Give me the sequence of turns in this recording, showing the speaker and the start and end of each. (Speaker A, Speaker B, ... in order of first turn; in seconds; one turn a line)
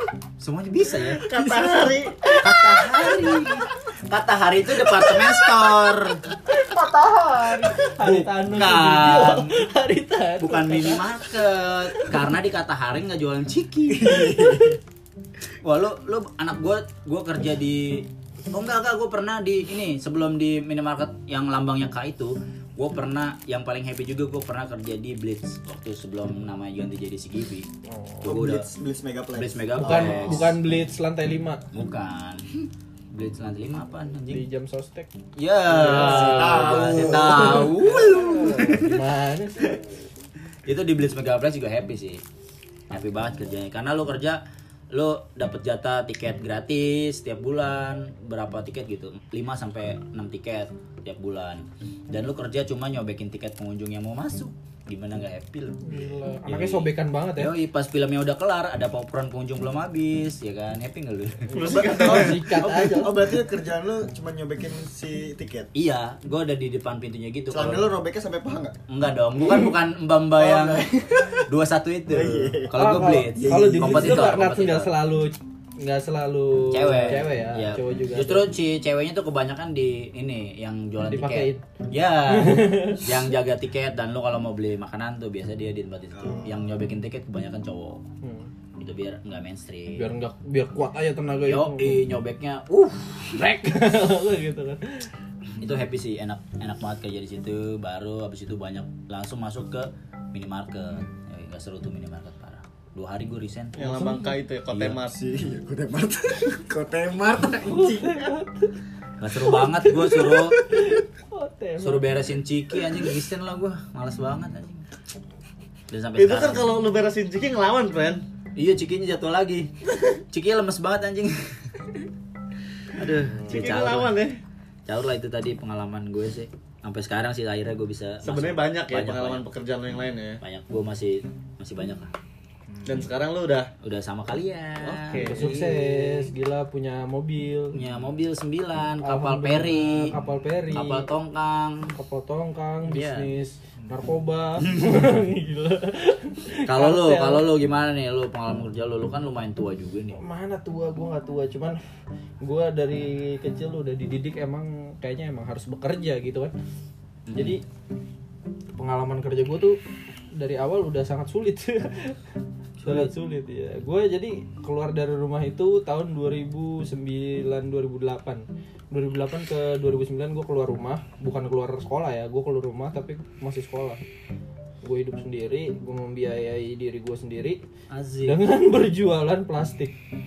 Speaker A: 0.4-1.3
Speaker B: 1.3-2.1
Speaker C: 1.3-3.6
Speaker D: 1.4-2.0
Speaker A: 2.3-6.2
Speaker C: 4.8-5.7
Speaker C: 6.5-11.3
Speaker A: 7.9-9.6
Speaker A: 10.4-14.6
Speaker C: 11.9-12.2
Speaker D: 13.9-14.8
Speaker A: 15.6-27.7
Speaker C: 27.9-28.4
Speaker A: 28.2-28.7
Speaker D: 28.2-30.4
Speaker A: 29.3-30.6
Speaker C: 29.8-31.6
Speaker A: 31.7-32.5
Speaker A: 33.1-34.4
Speaker C: 34.3-35.1
Speaker A: 35.4-38.9
Speaker C: 35.7-39.9
Speaker D: 35.8-38.8
Speaker A: 40.6-42.2
Speaker A: 42.9-61.8
Speaker C: 55.8-57.6
Speaker C: 61.5-63.2
Speaker B: 61.5-62.4
Speaker D: 61.7-65.7
Speaker A: 65.7-68.0
Speaker D: 67.5-68.8
Speaker A: 68.9-74.9
Speaker D: 70.3-71.5
Speaker D: 72.1-74.3
Speaker C: 72.7-78.5
Speaker A: 76.7-88.0
Speaker C: 81.0-81.6
Speaker C: 82.3-83.1
Speaker D: 86.1-86.7
Speaker C: 88.2-88.5
Speaker A: 88.8-90.1
Speaker C: 90.0-92.0
Speaker A: 91.5-93.6
Speaker C: 93.4-95.0
Speaker A: 95.6-103.8
Speaker B: 103.7-105.2
Speaker C: 103.8-104.3
Speaker A: 104.7-105.0
Speaker D: 105.1-108.3
Speaker C: 107.7-108.7
Speaker A: 109.2-110.6
Speaker C: 109.5-112.3
Speaker A: 111.8-114.8
Speaker A: 115.9-116.7
Speaker B: 116.2-118.2
Speaker A: 118.5-119.7
Speaker A: 120.3-121.5
Speaker A: 123.0-124.2
Speaker D: 123.3-123.6
Speaker B: 123.4-124.4
Speaker A: 124.9-129.4
Speaker B: 128.2-130.4
Speaker A: 130.4-132.1
Speaker D: 132.7-133.0
Speaker B: 132.8-133.7
Speaker A: 133.8-136.3
Speaker B: 134.8-135.6
Speaker C: 135.2-137.8
Speaker A: 137.7-140.1
Speaker C: 139.0-141.1
Speaker A: 140.7-141.9
Speaker C: 141.9-147.5
Speaker A: 142.9-143.3
Speaker A: 144.6-145.1
Speaker A: 146.7-150.2
Speaker C: 150.1-151.8
Speaker C: 152.4-156.5
Speaker A: 157.3-157.6
Speaker C: 157.3-157.6
Speaker C: 158.8-159.8
Speaker C: 160.3-162.2
Speaker A: 162.8-163.1
Speaker C: 162.8-174.0
Speaker C: 174.8-177.6
Speaker A: 177.9-178.4
Speaker C: 178.2-179.9